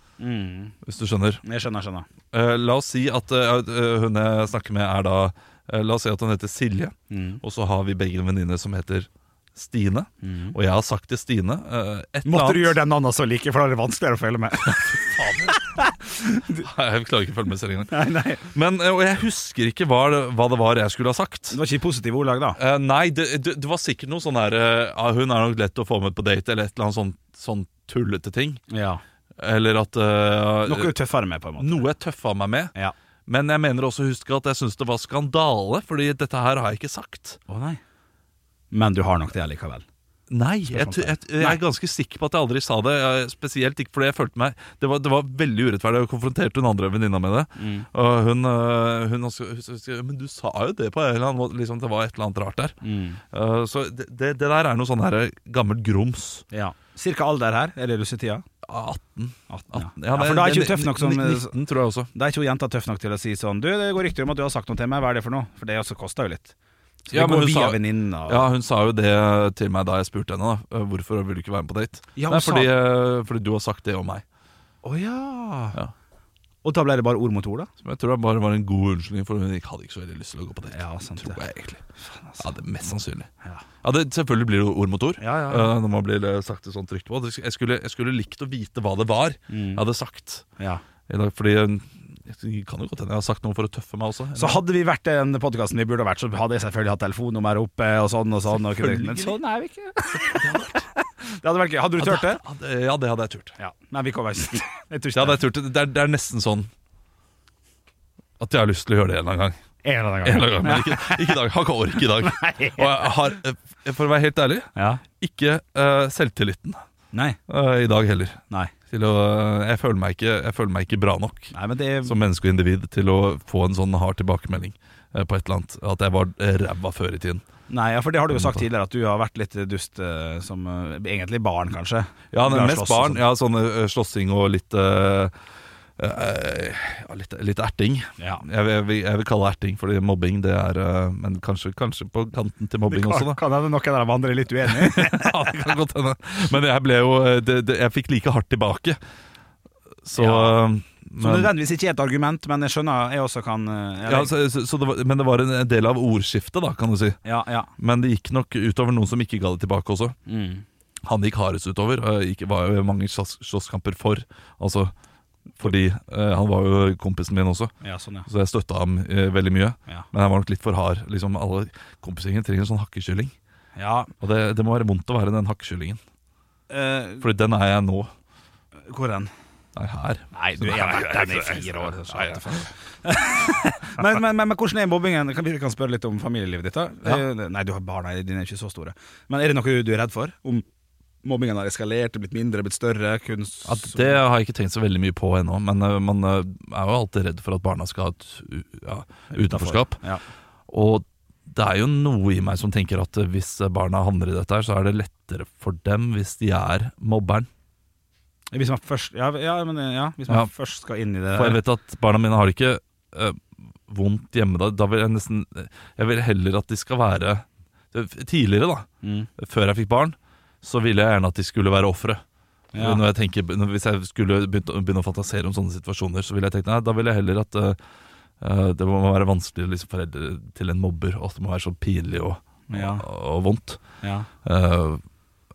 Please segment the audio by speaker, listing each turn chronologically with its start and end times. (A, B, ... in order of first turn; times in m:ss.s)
0:00.2-0:00.8 A
0:00.8-0:01.4 B
0:01.4-0:02.1 A
0:02.3-0:12.8 B
0:07.1-0:07.4 A
0:10.2-0:10.6 A
0:12.2-0:16.6 A
0:14.6-0:15.6 B
0:16.6-0:21.6 B
0:17.9-0:18.5 A
0:21.5-0:22.6 A
0:22.6-0:28.6 B
0:28.7-0:29.0 A
0:29.4-0:30.9 B
0:30.6-0:31.8 A
0:31.6-0:32.7 B
0:33.3-0:37.4 B
0:37.5-0:37.8 A
0:38.7-0:39.8 A
0:40.3-0:52.8 B
0:40.7-0:41.6 A
0:47.6-0:47.9 A
0:52.8-0:53.2 A
0:53.3-0:56.4 B
0:56.5-0:58.4 A
0:58.6-1:02.1 B
0:59.5-1:01.6 A
1:02.1-1:06.5 A
1:07.1-1:08.5 A
1:07.1-1:14.2 B
1:12.2-1:12.7 A
1:14.8-1:15.8 A
1:16.6-1:17.7 A
1:17.8-1:21.8 B
1:20.7-1:21.5 A
1:22.0-1:22.5 A
1:22.4-1:23.3 B
1:23.8-1:30.5 B
1:25.2-1:25.7 A
1:29.5-1:29.8 A
1:31.1-1:34.6 B
1:34.4-1:42.4 A
1:38.6-1:39.4 B
1:40.3-1:40.8 B
1:42.0-1:43.5 B
1:43.6-1:45.4 A
1:45.1-1:46.7 B
1:48.4-1:49.6 B
1:49.8-1:51.4 A
1:50.2-1:54.7 B
1:52.2-1:53.1 A
1:54.8-1:55.0 A
1:55.2-1:56.8 B
1:57.1-1:57.4 A
1:57.5-2:01.5 B
2:01.5-2:02.2 A
2:02.0-2:07.4 B
2:07.7-2:13.2 A
2:08.3-2:08.6 B
2:12.3-2:15.3 B
2:16.0-2:23.4 B
2:18.2-2:18.4 A
2:22.9-2:25.6 A
2:24.7-2:29.0 B
2:30.0-2:31.5 B
2:30.2-2:30.6 A
2:31.2-2:34.3 A
2:34.1-2:37.2 B
2:37.2-2:37.7 A
2:37.8-2:40.2 B
2:40.3-2:40.6 A
2:41.0-2:44.9 B
2:45.6-2:47.7 B
2:47.8-2:48.3 A
2:48.2-2:53.3 B
2:53.8-2:54.1 A
2:54.2-2:56.0 B
2:56.7-2:57.3 A
2:57.2-2:58.1 B
2:58.8-2:59.3 A
2:59.8-3:02.7 B
3:00.3-3:10.6 A
3:11.2-3:14.2 A
3:13.6-3:20.0 B
3:19.3-3:20.2 A
3:20.7-3:27.5 B
3:28.5-3:31.6 A
3:31.3-3:42.2 B
3:39.0-3:39.3 A
3:42.7-3:43.0 A
3:42.8-3:47.8 B
3:48.4-3:53.8 B
3:52.7-3:53.0 A
3:54.0-3:54.3 A
3:54.4-3:55.0 B